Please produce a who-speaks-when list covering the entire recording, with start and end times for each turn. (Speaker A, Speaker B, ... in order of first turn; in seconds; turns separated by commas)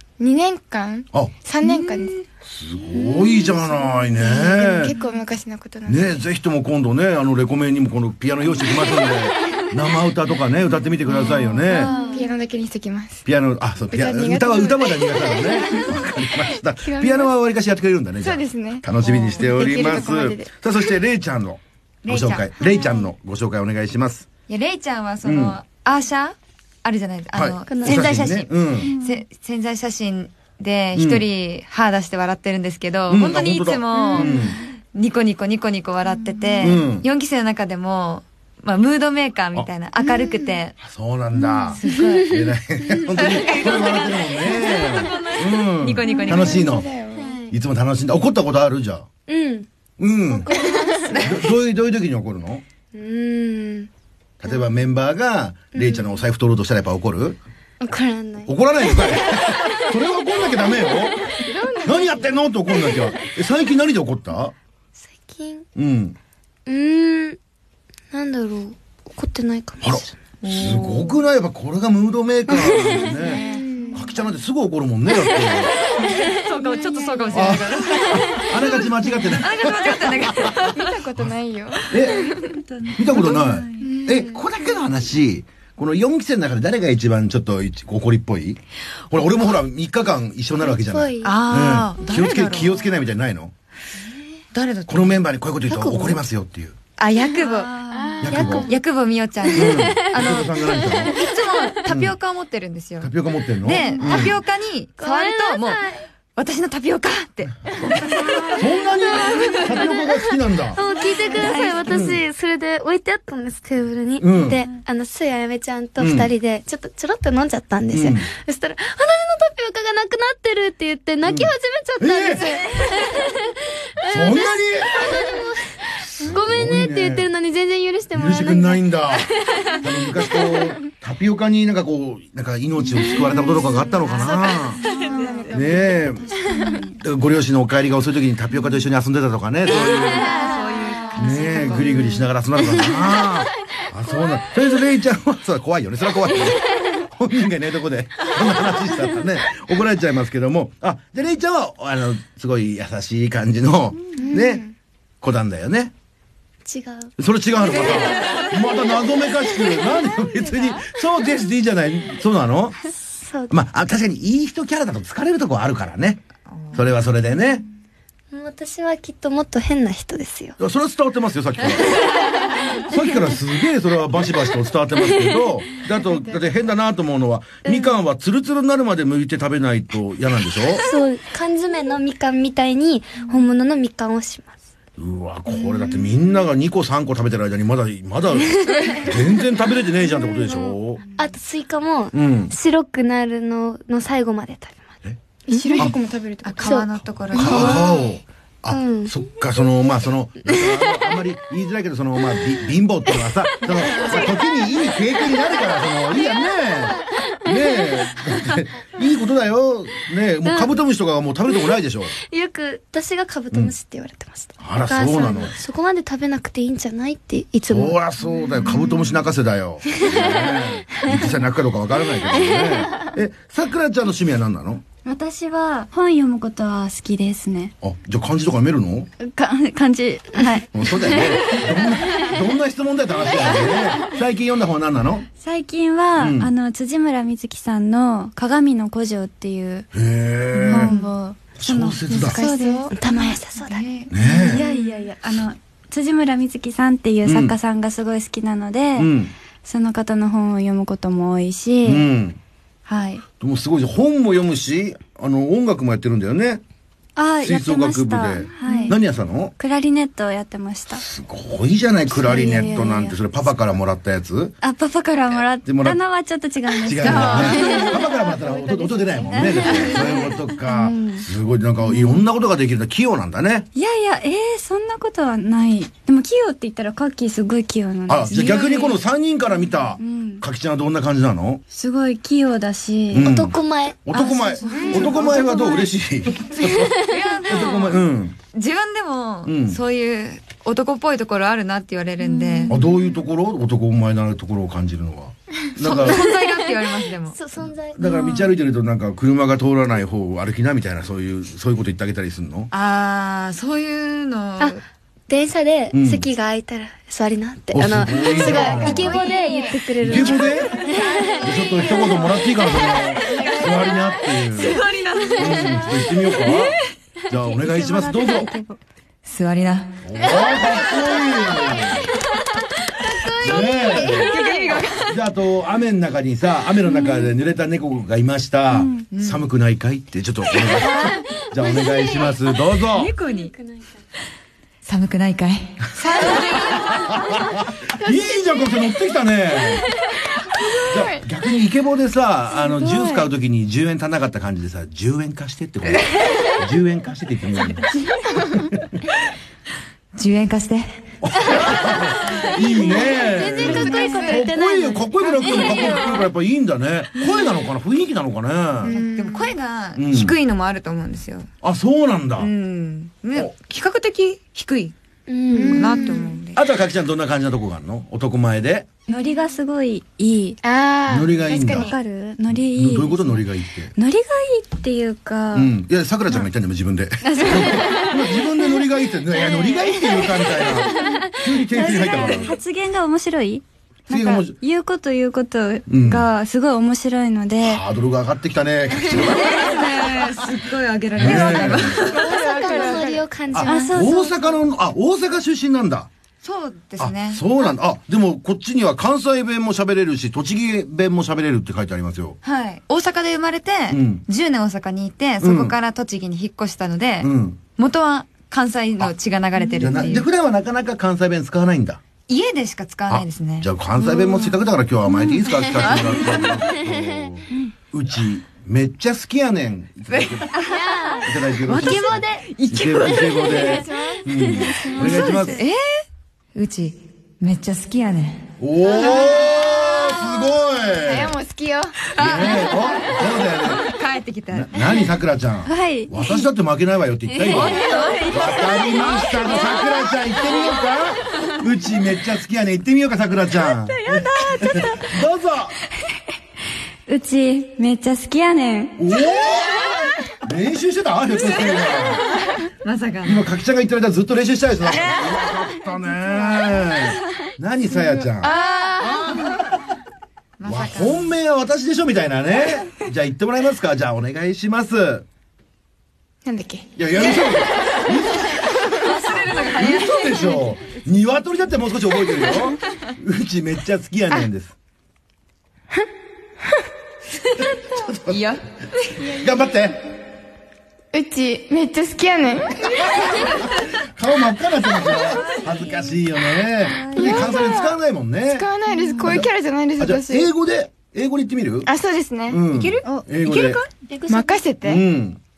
Speaker A: 0.2-2.1, Speaker B: 1.6-2.2, Speaker C: 2.5-4.9, Speaker D: 2.9-3.6, Speaker A: 4.0-6.1, Speaker C: 5.9-12.0, Speaker D: 11.7-12.3, Speaker A: 11.7-13.2, Speaker C: 13.3-24.3, Speaker A: 13.9-16.0, Speaker A: 16.8-17.4, Speaker A: 18.2-20.5, Speaker E: 19.0-19.5, Speaker E: 22.0-22.9, Speaker E: 24.5-40.8, Speaker C: 25.2-25.6, Speaker C: 27.3-28.9, Speaker D: 27.7-28.2, Speaker B: 28.9-29.2, Speaker C: 30.9-31.3, Speaker C: 33.1-34.6, Speaker A: 34.0-34.4, Speaker C: 36.6-37.1, Speaker D: 40.1-40.5, Speaker C: 40.8-46.9, Speaker E: 41.8-42.3, Speaker D: 41.9-44.0, Speaker E: 43.1-46.7, Speaker A: 46.1-47.3, Speaker D: 47.2-47.6, Speaker C: 47.5-49.1, Speaker D: 49.3-49.7, Speaker C: 50.0-50.5, Speaker D: 50.3-51.3, Speaker A: 50.5-51.3, Speaker E: 51.1-51.4, Speaker C: 51.2-52.6, Speaker D: 52.9-53.9, Speaker C: 54.4-57.4, Speaker D: 54.5-54.7, Speaker D: 55.7-56.2, Speaker D: 57.8-59.3, Speaker C: 58.5-61.2, Speaker A: 61.5-62.2, Speaker C: 61.8-64.5, Speaker D: 62.8-63.1, Speaker D: 65.0-65.7, Speaker C: 65.8-66.2, Speaker D: 66.7-67.4, Speaker D: 68.1-70.2, Speaker C: 69.8-75.8, Speaker E: 70.4-71.2, Speaker D: 72.5-74.2, Speaker A: 73.2-74.2, Speaker E: 75.7-78.8, Speaker A: 77.0-77.4, Speaker C: 77.3-80.5, Speaker E: 79.4-81.0, Speaker A: 80.4-82.3, Speaker C: 81.9-82.4, Speaker B: 82.3-83.9, Speaker C: 82.9-93.5, Speaker A: 83.8-84.4, Speaker D: 90.6-91.5, Speaker E: 91.2-92.8, Speaker E: 94.5-95.2, Speaker C: 94.9-96.8, Speaker D: 95.7-96.2, Speaker E: 97.0-97.8, Speaker B: 97.4-98.1, Speaker A: 97.9-98.6, Speaker C: 98.2-98.7, Speaker D: 98.3-98.7, Speaker E: 98.3-108.3, Speaker C: 99.5-101.2, Speaker C: 101.9-102.2, Speaker C: 103.0-104.4, Speaker D: 105.0-106.1, Speaker C: 108.5-110.8, Speaker D: 109.2-130.6, Speaker B: 111.3-111.7, Speaker E: 111.4-111.9, Speaker C: 111.9-112.2, Speaker C: 114.2-114.6, Speaker C: 116.0-116.3, Speaker C: 117.9-118.3, Speaker C: 121.2-122.6, Speaker C: 124.0-125.1, Speaker C: 126.2-127.3, Speaker C: 128.1-134.8, Speaker B: 132.9-133.5, Speaker D: 133.3-133.9, Speaker E: 134.1-134.3, Speaker B: 134.8-137.0, Speaker A: 134.8-136.8, Speaker C: 135.5-136.3, Speaker C: 137.0-140.4, Speaker E: 139.7-141.9, Speaker D: 140.2-142.1, Speaker C: 141.2-154.7, Speaker A: 154.2-154.7, Speaker C: 155.2-155.9, Speaker D: 156.7-157.1, Speaker C: 157.2-162.8, Speaker E: 158.2-158.5, Speaker D: 163.2-163.6, Speaker C: 163.5-166.2, Speaker E: 166.5-166.9, Speaker C: 166.7-167.6, Speaker D: 168.3-170.6, Speaker C: 170.6-172.0, Speaker C: 172.8-180.8, Speaker D: 177.7-177.9, Speaker D: 180.7-184.6, Speaker C: 185.0-191.0, Speaker D: 188.4-189.2, Speaker D: 190.1-195.0, Speaker C: 192.1-192.5, Speaker A: 195.5-197.9, Speaker D: 195.5-195.9, Speaker E: 196.4-197.9, Speaker D: 196.6-197.8, Speaker C: 197.3-212.2, Speaker D: 198.7-199.2, Speaker D: 200.5-200.9, Speaker D: 203.7-207.6, Speaker D: 210.4-210.7, Speaker D: 211.6-218.0, Speaker C: 214.6-215.6, Speaker C: 217.7-224.8, Speaker D: 218.6-219.1, Speaker D: 219.9-221.3, Speaker D: 222.3-223.2, Speaker B: 225.1-227.7, Speaker C: 227.8-229.1, Speaker B: 229.2-231.6, Speaker C: 230.7-235.3, Speaker B: 235.4-239.9, Speaker C: 236.2-236.5, Speaker C: 239.9-240.9, Speaker B: 240.7-243.4, Speaker A: 240.7-241.1, Speaker C: 241.6-242.4, Speaker A: 242.1-242.9, Speaker D: 242.9-243.9, Speaker E: 243.6-244.9, Speaker C: 244.1-244.7, Speaker B: 244.2-252.1, Speaker C: 247.2-247.6, Speaker C: 249.0-249.3, Speaker C: 251.8-252.4, Speaker B: 252.9-253.2, Speaker C: 253.4-256.6, Speaker B: 257.2-259.0, Speaker C: 257.4-259.6, Speaker E: 258.7-258.9, Speaker B: 259.6-261.0, Speaker C: 260.9-264.6, Speaker B: 262.1-263.2, Speaker B: 264.6-268.1, Speaker C: 265.6-266.0, Speaker C: 266.7-273.7, Speaker E: 267.3-267.6, Speaker B: 269.2-271.3, Speaker B: 271.9-272.2, Speaker B: 273.8-279.0, Speaker C: 278.1-281.6, Speaker B: 280.0-280.4, Speaker B: 281.7-283.3, Speaker C: 283.1-288.4, Speaker D: 283.2-284.0, Speaker E: 284.1-285.7, Speaker B: 284.7-285.5, Speaker A: 284.7-285.2, Speaker D: 286.8-287.1, Speaker E: 287.0-292.8, Speaker C: 289.4-289.8, Speaker B: 292.2-292.8, Speaker C: 292.7-296.3, Speaker E: 295.8-297.4, Speaker D: 297.3-298.1, Speaker C: 297.9-302.7, Speaker B: 298.0-298.5, Speaker E: 302.7-304.8, Speaker D: 304.6-312.3, Speaker C: 305.9-306.3, Speaker C: 307.7-309.2, Speaker E: 308.2-310.3, Speaker A: 308.5-309.0, Speaker C: 310.0-310.8, Speaker C: 311.4-314.8, Speaker D: 313.4-314.1, Speaker A: 313.4-313.8, Speaker E: 314.5-315.9, Speaker C: 315.4-316.8, Speaker C: 317.3-318.5, Speaker B: 317.3-318.8, Speaker E: 319.2-320.0, Speaker C: 320.0-322.1, Speaker D: 320.2-322.0, Speaker D: 323.1-324.7, Speaker C: 323.4-324.4, Speaker E: 323.9-325.2, Speaker C: 325.1-333.1, Speaker B: 328.7-329.1, Speaker E: 329.1-329.5, Speaker D: 331.1-332.4, Speaker E: 332.9-333.5, Speaker D: 333.3-333.9, Speaker E: 334.8-337.2, Speaker C: 336.2-339.9, Speaker A: 338.0-338.7, Speaker A: 340.6-341.2, Speaker C: 340.9-347.9, Speaker B: 342.6-343.3, Speaker C: 348.5-348.8, Speaker E: 350.1-351.0, Speaker C: 351.2-359.0, Speaker D: 352.6-356.2, Speaker A: 353.6-354.4, Speaker B: 353.6-354.3, Speaker A: 355.6-356.0, Speaker A: 358.8-359.6, Speaker E: 358.9-361.5, Speaker C: 360.0-360.4, Speaker C: 361.6-362.5, Speaker E: 362.4-364.9, Speaker D: 365.3-366.2, Speaker A: 365.5-366.4, Speaker E: 365.7-366.6, Speaker C: 366.6-368.9, Speaker B: 369.1-370.6, Speaker A: 370.6-371.9, Speaker C: 371.1-371.9, Speaker B: 371.7-375.7, Speaker C: 372.5-373.9, Speaker C: 375.5-382.6, Speaker B: 377.2-378.2, Speaker B: 380.9-387.8, Speaker C: 384.1-384.6, Speaker C: 385.9-386.3, Speaker C: 387.6-390.4, Speaker E: 389.2-392.3, Speaker C: 391.1-392.0, Speaker A: 391.3-393.2, Speaker D: 392.0-394.2, Speaker C: 393.5-396.1, Speaker B: 393.6-394.5, Speaker E: 396.4-397.4, Speaker C: 397.0-402.4, Speaker E: 402.4-410.3, Speaker C: 403.9-404.2, Speaker C: 405.4-405.7, Speaker C: 407.2-407.6, Speaker B: 409.6-410.0, Speaker C: 409.8-412.0, Speaker E: 412.3-414.5, Speaker C: 413.1-420.5, Speaker E: 415.8-416.4, Speaker E: 420.1-420.8, Speaker D: 420.7-421.3, Speaker C: 421.2-425.6, Speaker E: 421.7-423.7, Speaker D: 421.9-422.4, Speaker A: 423.4-425.3, Speaker B: 425.0-425.5, Speaker E: 425.0-428.5, Speaker C: 428.6-431.4, Speaker A: 429.0-429.4, Speaker A: 431.0-432.0, Speaker E: 432.1-434.9, Speaker C: 432.2-433.9, Speaker C: 434.5-445.8, Speaker B: 435.7-436.4, Speaker B: 437.4-439.7, Speaker E: 437.5-439.9, Speaker B: 443.8-444.9, Speaker B: 447.1-449.0, Speaker C: 449.0-452.3, Speaker E: 452.8-453.5, Speaker C: 453.2-458.6, Speaker A: 458.4-459.5, Speaker E: 460.6-461.3, Speaker C: 460.6-465.3, Speaker A: 466.4-466.9, Speaker C: 467.0-474.8, Speaker E: 469.0-470.7, Speaker C: 477.6-478.5, Speaker E: 478.3-479.2, Speaker A: 479.2-479.6, Speaker C: 479.2-480.0, Speaker A: 481.1-483.3, Speaker C: 482.9-488.7, Speaker A: 487.1-487.9, Speaker A: 488.5-490.5, Speaker B: 488.9-489.3, Speaker C: 489.2-491.9, Speaker A: 491.9-492.6, Speaker C: 492.5-493.8, Speaker E: 492.7-493.8, Speaker D: 494.1-494.6, Speaker A: 494.3-495.0, Speaker C: 494.8-495.4